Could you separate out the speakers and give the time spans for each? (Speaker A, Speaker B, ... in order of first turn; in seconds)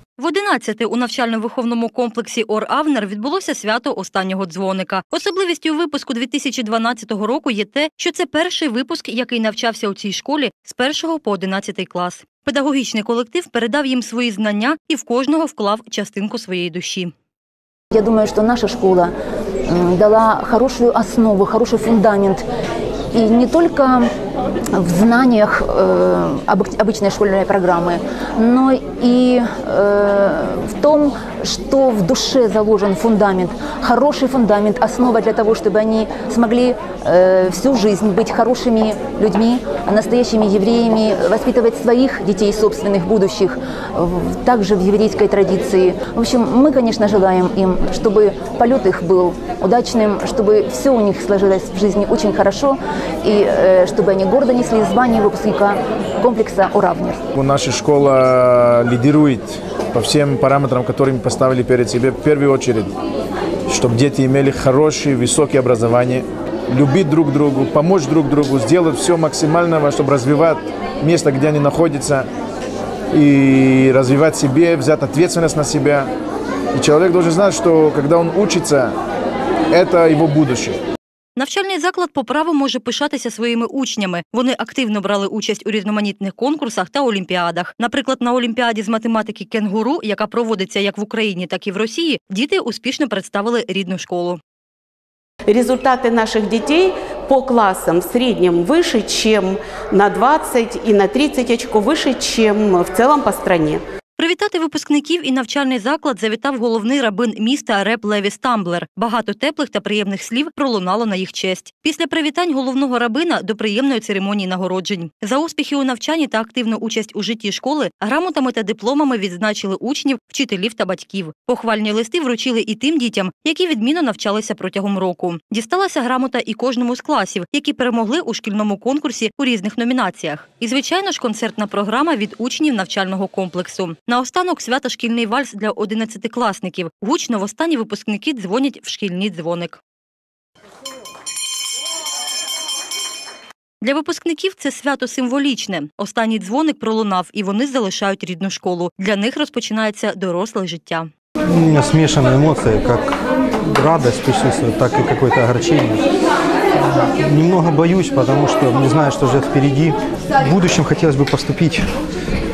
Speaker A: 0.2-17.1, 81.4-94.4, 104.2-139.8, 143.8-151.1
Speaker B: 17.9-19.1, 19.7-22.4, 23.1-24.1, 24.7-57.3
Speaker C: 57.4-62.9, 63.7-72.3, 73.1-76.1, 76.7-78.9, 79.7-80.8
Speaker D: 95.5-103.8
Speaker E: 151.4-156.0, 156.9-161.9